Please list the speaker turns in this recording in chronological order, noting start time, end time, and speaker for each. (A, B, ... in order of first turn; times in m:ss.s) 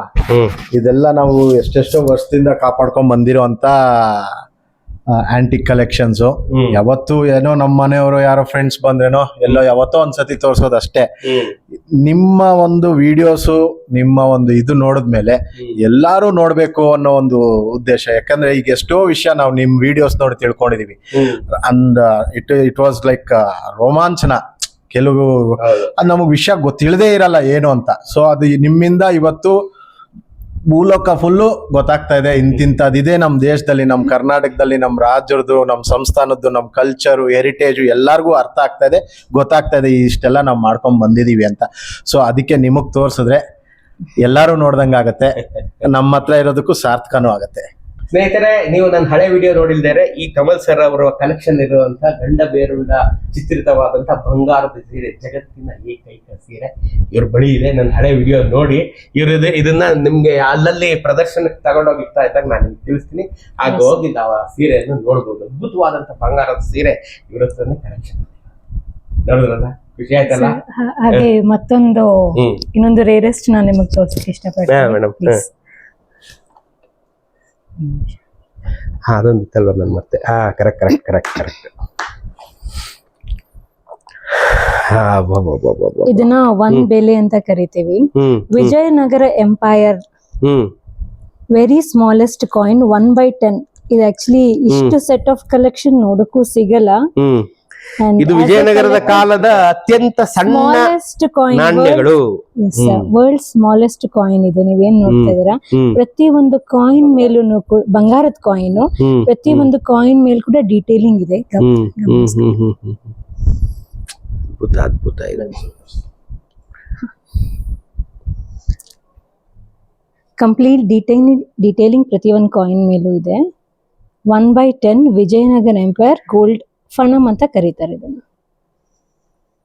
0:00.3-0:00.6 A
0:00.7-0:04.3 B
0:05.3-0:11.1 B
0:06.5-0:06.8 A
0:11.3-0:11.5 A
0:12.0-0:24.4 B
0:24.9-0:29.6 B
0:25.6-0:25.9 A
0:30.7-0:43.4 B
0:44.2-0:47.6 B
0:48.1-1:08.3 A
1:03.6-1:04.0 C
1:09.3-1:10.6 A
1:10.3-1:15.5 C
1:12.4-1:12.6 A
1:14.7-1:15.4 A
1:17.8-1:18.2 C
1:19.1-1:21.7 A
1:24.4-1:26.9 A
1:26.1-1:30.0 C
1:28.2-1:28.7 A
1:30.4-1:30.7 A
1:31.5-1:37.0 C
1:34.7-1:35.0 A
1:37.2-1:37.5 A
1:38.0-1:39.3 C
1:38.2-1:40.9 A
1:40.5-1:42.1 C
1:41.5-1:42.2 A
1:42.6-1:52.5 C
1:42.8-1:43.1 A
1:45.1-1:46.0 A
1:49.0-1:49.7 A
1:51.6-1:53.1 A
1:54.5-1:55.6 A
2:00.4-2:03.4 C
2:04.3-2:08.2 C